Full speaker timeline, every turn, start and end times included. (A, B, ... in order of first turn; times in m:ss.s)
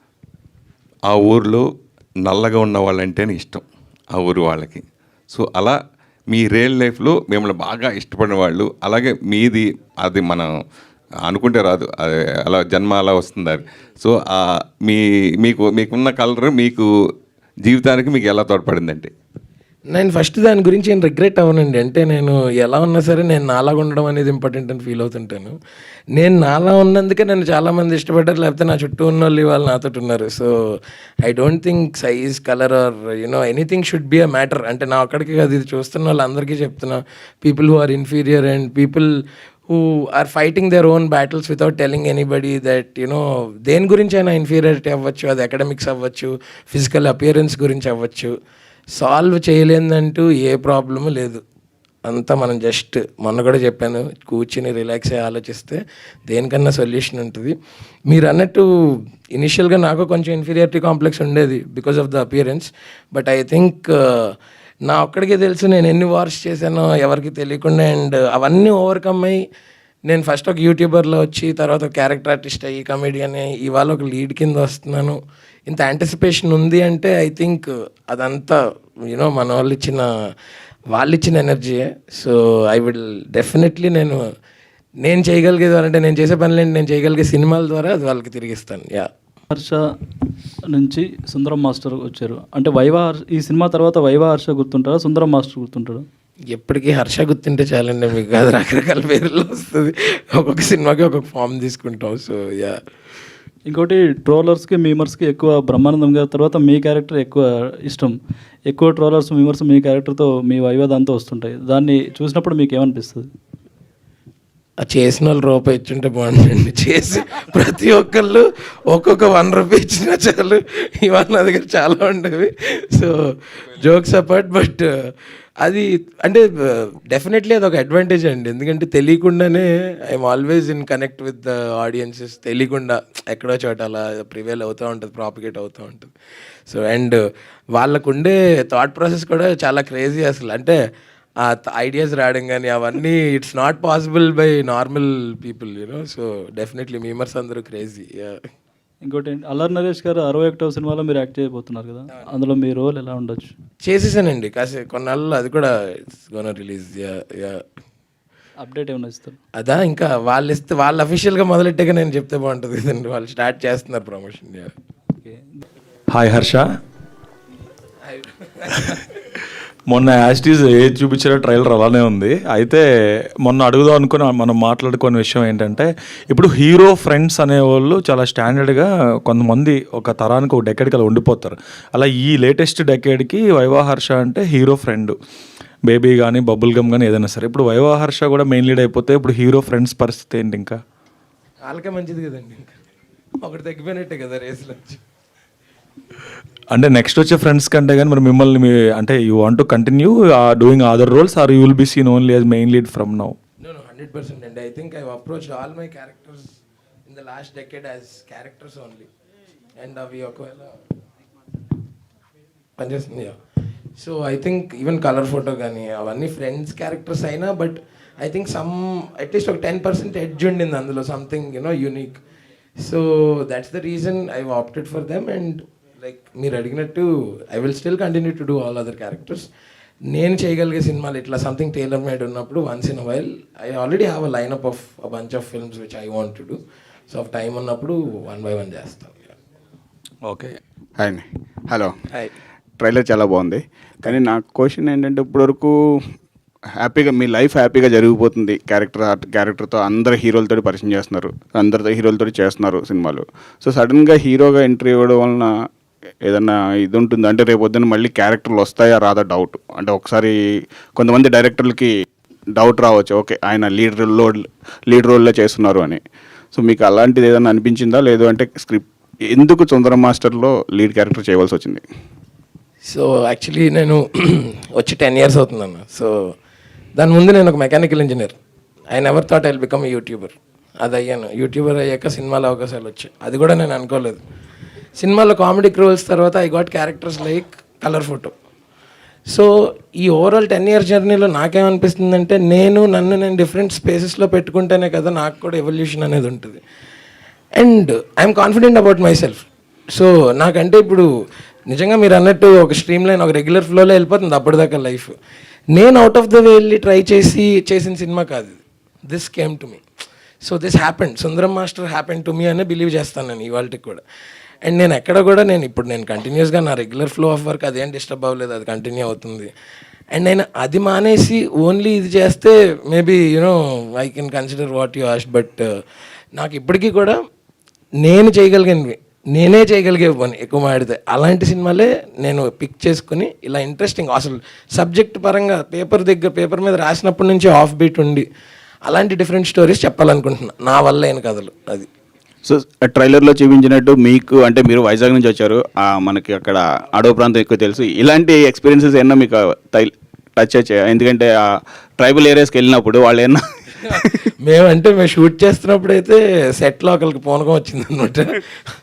0:01.1-0:01.6 A
0:02.2-0:03.6 A
0:04.2-0:05.8 A
0:06.3-0:10.5 A
0:11.3-0:16.9 A
0:17.7-0:19.1 A
0:19.9-0:25.5 B
0:26.1-0:30.5 B
0:31.2-0:39.1 B
0:39.7-0:48.3 B
0:49.0-0:51.4 B
0:52.0-0:57.5 B
0:58.1-0:58.6 B
0:59.3-1:04.3 B
1:04.8-1:09.4 B
1:10.1-1:15.2 B
1:15.7-1:18.6 B
1:19.1-1:20.0 B
1:20.9-1:24.2 B
1:25.0-1:29.1 B
1:29.5-1:29.8 C
1:30.7-1:36.0 C
1:36.5-1:42.8 B
1:43.7-1:48.2 C
1:48.7-1:53.2 C
1:54.8-2:03.2 B
2:03.8-2:04.9 B
2:05.6-2:16.1 B
2:16.7-2:17.2 B
2:17.7-2:20.8 B
2:21.4-2:28.4 B
2:29.0-2:33.5 C
2:33.8-2:37.6 B
2:38.6-2:39.4 C
2:39.6-2:44.7 B
2:45.2-2:45.6 C
2:46.1-2:46.6 D
2:48.1-2:49.0 B
2:49.9-2:52.8 D
2:53.4-3:05.1 D
3:05.9-3:10.8 D
3:11.6-3:12.8 B
3:13.4-3:15.0 B
3:16.7-3:23.4 D
3:23.6-3:26.5 B
3:27.0-3:29.1 B
3:29.8-3:30.7 B
3:32.8-3:33.3 B
3:34.0-3:42.2 B
3:42.8-3:49.5 B
3:50.1-3:56.6 B
3:57.1-3:59.3 B
4:00.2-4:00.6 D
4:01.0-4:01.9 E
4:02.8-4:05.7 E
4:06.8-4:15.5 E
4:16.2-4:20.3 E
4:21.0-4:21.9 E
4:22.5-4:26.0 E
4:26.5-4:31.8 E
4:32.9-4:36.1 B
4:37.0-4:38.4 B
4:38.9-4:44.2 B
4:45.0-4:48.3 B
4:49.3-4:56.6 B
4:57.6-5:01.1 B
5:01.7-5:05.1 B
5:05.7-5:09.8 B
5:10.4-5:14.0 B
5:14.6-5:19.5 B
5:20.1-5:25.7 B
5:26.3-5:27.2 B
5:28.0-5:38.2 B
5:38.8-5:41.9 B
5:42.4-5:51.3 E
5:52.0-5:53.4 E
5:53.9-5:54.3 E
5:54.4-5:58.2 B